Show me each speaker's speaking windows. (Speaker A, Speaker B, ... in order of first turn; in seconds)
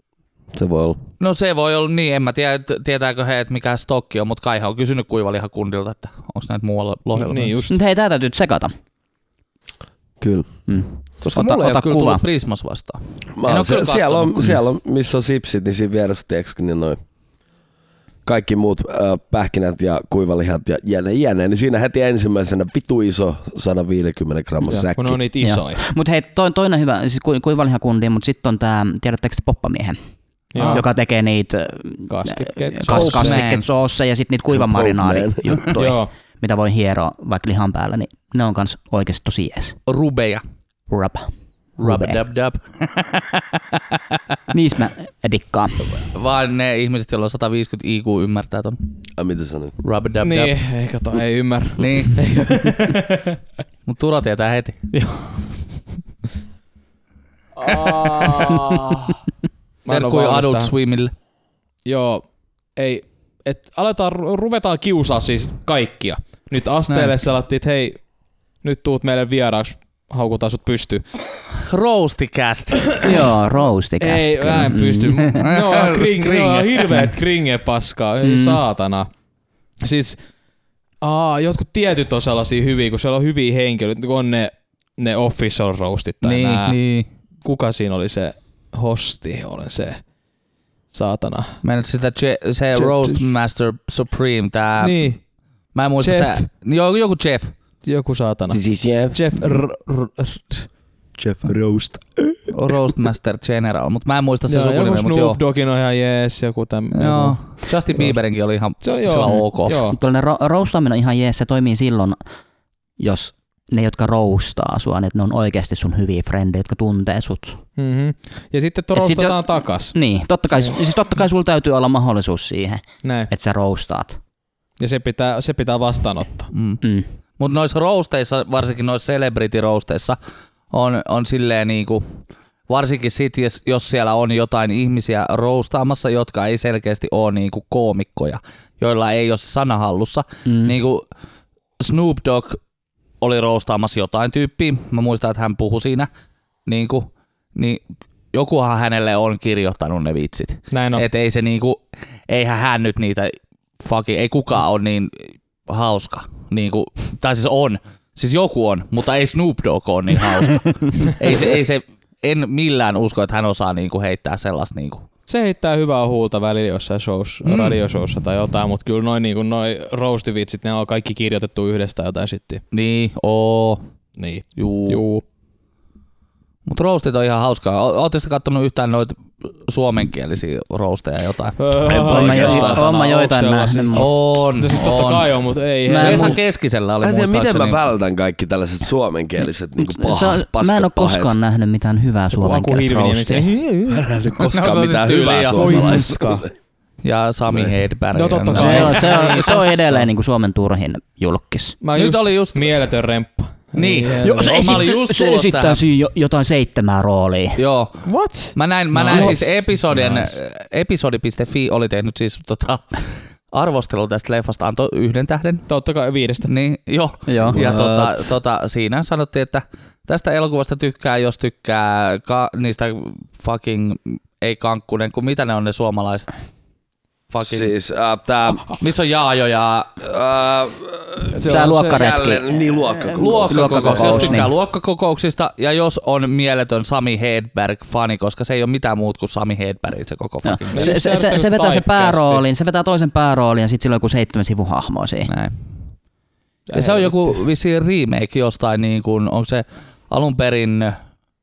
Speaker A: 0.5-1.0, 10.2-10.5, 13.4-17.0, 18.2-25.2, 34.5-35.7, 49.2-49.8, 98.5-99.2, 101.2-102.4, 181.9-182.8, 187.0-191.4, 193.9-196.5, 197.5-197.8, 217.5-218.4, 227.4-228.7, 230.0-234.3
Speaker B: 1.2-7.6, 11.2-14.5, 30.6-30.9, 32.9-33.6, 39.9-40.4, 41.8-44.0, 46.1-48.8, 49.8-50.5, 51.8-52.2, 53.9-54.9, 57.8-58.6, 59.9-61.1, 66.9-67.2, 71.5-73.0, 75.4-77.1, 86.2-87.1, 91.6-95.0, 95.8-97.5, 102.5-105.4, 106.9-109.8, 126.5-126.8, 127.4-130.2, 130.7-132.0, 132.7-141.1, 141.8-142.6, 143.2-146.1, 146.7-147.8, 148.3-165.1, 167.4-167.8, 172.7-173.8, 174.6-175.0, 176.7-182.8, 183.9-185.4, 185.9-187.8, 194.4-195.8, 197.0-199.2, 201.9-202.7, 203.8-205.8, 207.6-215.7, 216.4-226.3, 227.3-227.7, 228.8-229.9, 233.2-240.9, 245.3-245.6, 246.7-251.0
Speaker C: 7.2-7.8, 24.7-25.8, 30.5-30.9, 32.1-33.5, 35.7-36.1, 50.2-53.4, 54.9-55.7, 57.6-59.2, 59.9-60.7, 61.9-62.2, 62.8-68.0, 68.6-71.0, 74.0-79.1, 79.8-80.2, 81.0-86.8, 87.4-90.0, 90.9-91.6, 92.8-93.3, 94.8-95.2, 96.0-96.5, 97.8-98.6, 99.1-100.7, 104.5-108.2, 108.8-110.0, 117.8-120.0, 123.0-123.3, 124.8-126.5, 150.7-151.1, 165.3-172.6, 174.2-175.2, 181.6-186.4, 192.3-194.0, 195.6-196.4, 198.1-199.8, 201.8-204.6, 208.1-209.7, 215.7-216.5, 231.4-232.0, 233.7-234.4, 240.7-242.4, 246.7-247.4
Speaker D: 7.7-8.7, 10.7-12.2, 25.4-30.0, 30.7-39.8, 40.9-42.2, 44.5-46.0, 73.0-75.5, 78.2-78.6, 109.9-112.2, 113.0-117.6, 118.9-124.2, 126.8-127.1, 140.4-140.8, 181.9-184.1, 185.9-186.4, 189.8-193.5, 198.5-201.8, 204.2-207.6, 208.9-209.7, 217.3-217.6, 231.5-234.5, 240.4-245.3